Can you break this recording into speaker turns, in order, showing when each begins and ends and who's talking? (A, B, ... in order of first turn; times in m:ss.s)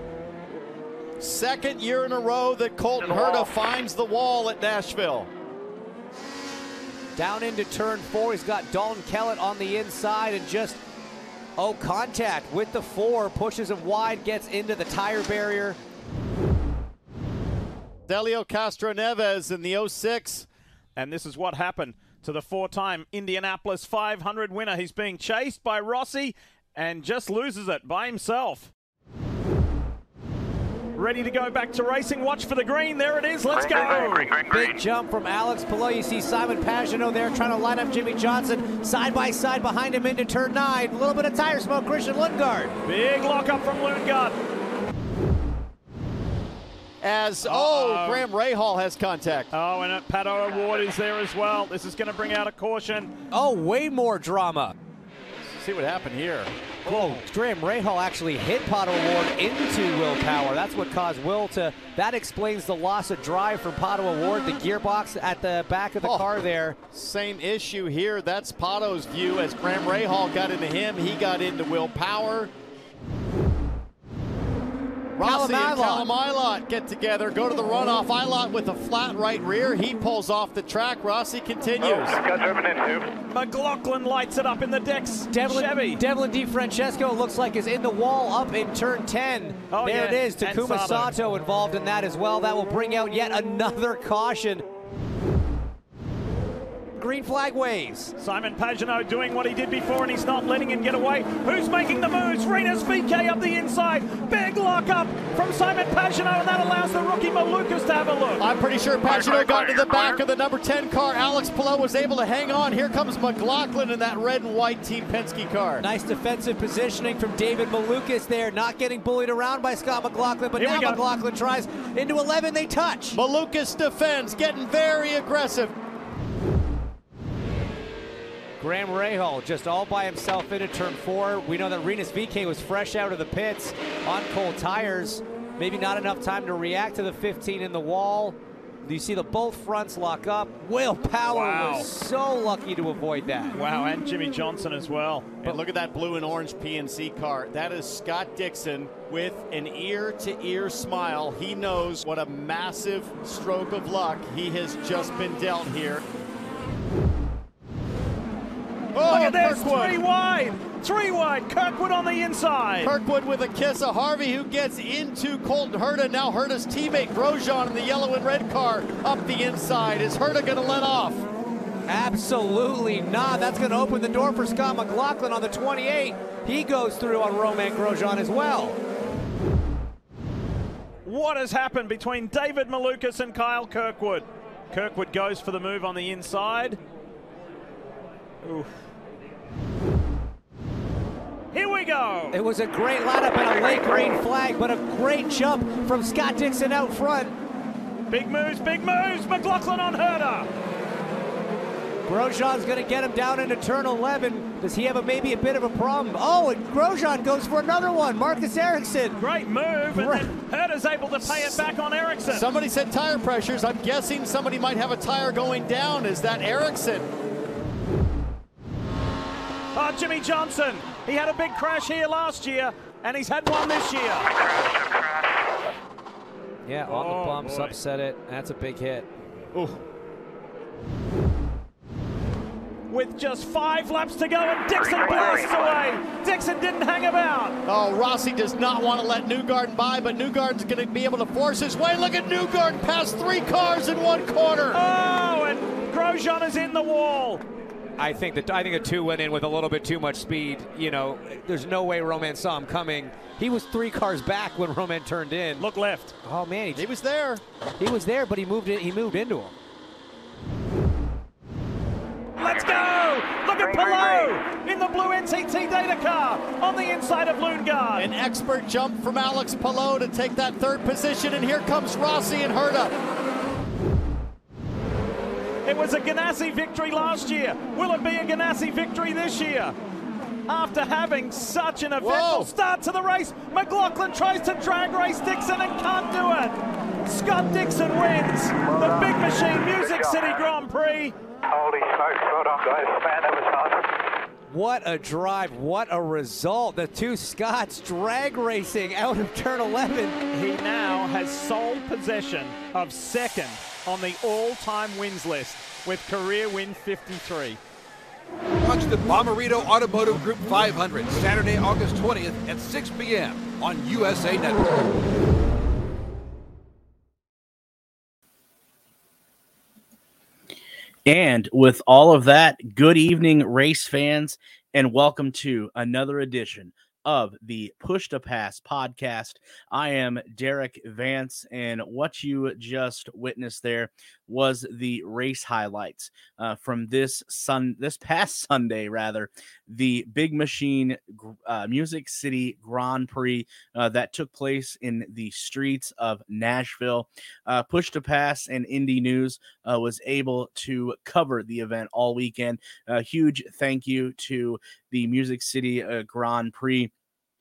0:01.2-0:05.3 A
0:07.2-0:10.8 B
0:11.6-0:15.8 B
0:18.1-0:20.5 A
0:21.0-0:28.7 C
0:31.0-0:34.3 C
0:33.4-0:34.8 D
0:34.4-0:42.7 B
0:42.8-0:44.4 C
0:47.0-0:49.5 A
0:47.4-0:48.3 C
0:49.5-0:53.1 C
0:53.3-0:54.7 B
0:55.5-0:56.5 A
0:56.8-1:06.8 B
0:56.8-0:57.2 C
1:06.0-1:06.3 A
1:06.9-1:12.5 A
1:15.2-1:22.2 A
1:15.2-1:16.1 B
1:21.8-1:23.1 D
1:23.3-1:26.0 C
1:25.3-1:34.6 B
1:29.7-1:31.1 C
1:36.9-1:38.1 B
1:38.2-1:48.4 C
1:48.4-1:55.8 A
1:49.1-1:50.2 D
1:55.8-2:03.2 B
2:00.6-2:01.0 C
2:03.1-2:05.8 A
2:08.6-2:23.6 B
2:21.3-2:21.9 C
2:23.5-2:25.5 C
2:25.4-2:36.0 A
2:38.9-2:40.0 A
2:39.0-2:42.9 C
2:42.8-2:51.2 A
2:51.9-2:58.8 B
3:01.0-3:06.8 C
3:08.4-3:08.7 C
3:11.5-3:12.4 C
3:12.3-3:17.4 B
3:18.1-3:20.5 C
3:22.0-3:29.2 B
3:29.2-3:32.5 C
3:29.9-3:30.3 B
3:32.3-3:37.1 A
3:39.7-3:44.3 C
3:44.3-3:45.3 D
3:46.6-3:49.1 B
3:46.8-3:47.8 C
3:49.5-3:49.8 A
3:52.9-3:57.6 C
3:54.7-3:55.9 D
3:57.6-4:04.8 A
4:04.7-4:07.4 C
4:08.0-4:15.6 B
4:15.6-4:16.1 C
4:16.2-4:16.9 B
4:16.7-4:17.4 A
4:17.8-4:19.5 B
4:22.4-4:28.1 C
4:22.4-4:22.9 D
4:23.4-4:24.4 D
4:28.0-4:32.9 A
4:35.6-4:39.8 C
4:40.4-4:51.1 C
4:42.0-4:42.5 A
4:48.6-4:50.6 D
4:51.5-4:53.9 D
4:54.5-5:00.2 B
5:00.3-5:07.6 C
5:08.6-5:14.9 E
5:21.0-5:56.9 F